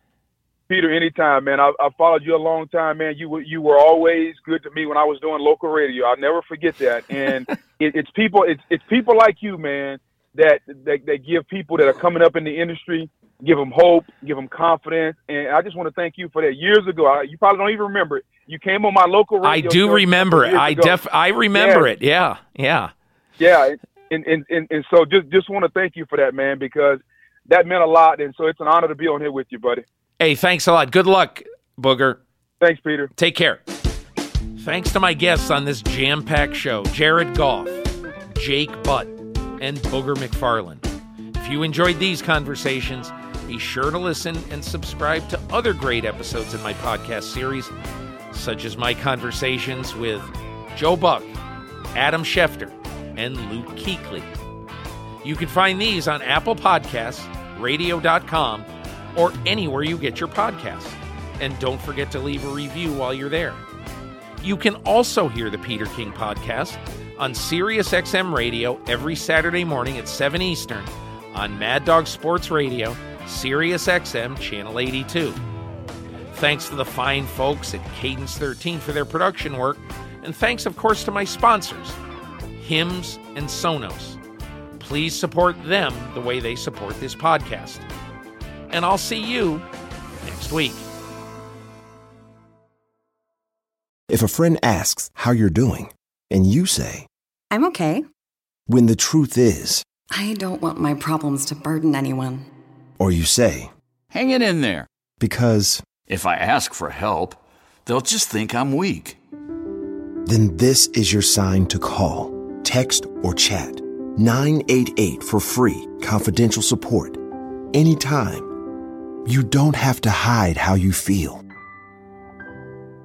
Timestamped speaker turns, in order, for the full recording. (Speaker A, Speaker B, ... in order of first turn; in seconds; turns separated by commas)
Speaker A: 0.7-21.0, Speaker B: 19.4-22.9, Speaker A: 21.5-21.9, Speaker A: 23.4-29.8, Speaker B: 30.2-32.2, Speaker A: 32.6-33.1, Speaker B: 33.2-33.6, Speaker B: 34.6-40.9, Speaker B: 41.4-47.7, Speaker B: 48.3-51.3, Speaker B: 52.0-54.3, Speaker B: 55.2-63.6, Speaker B: 64.4-75.4, Speaker B: 76.3-82.0, Speaker B: 82.6-84.2, Speaker B: 84.8-87.8, Speaker B: 88.7-89.7, Speaker B: 90.2-90.8, Speaker C: 94.1-97.1, Speaker D: 97.5-98.1, Speaker C: 98.7-99.8, Speaker D: 100.1-102.5, Speaker C: 103.0-103.7, Speaker E: 104.1-104.9, Speaker C: 105.2-105.8, Speaker E: 106.1-109.2, Speaker C: 110.3-117.2, Speaker C: 117.7-118.5, Speaker C: 119.3-121.4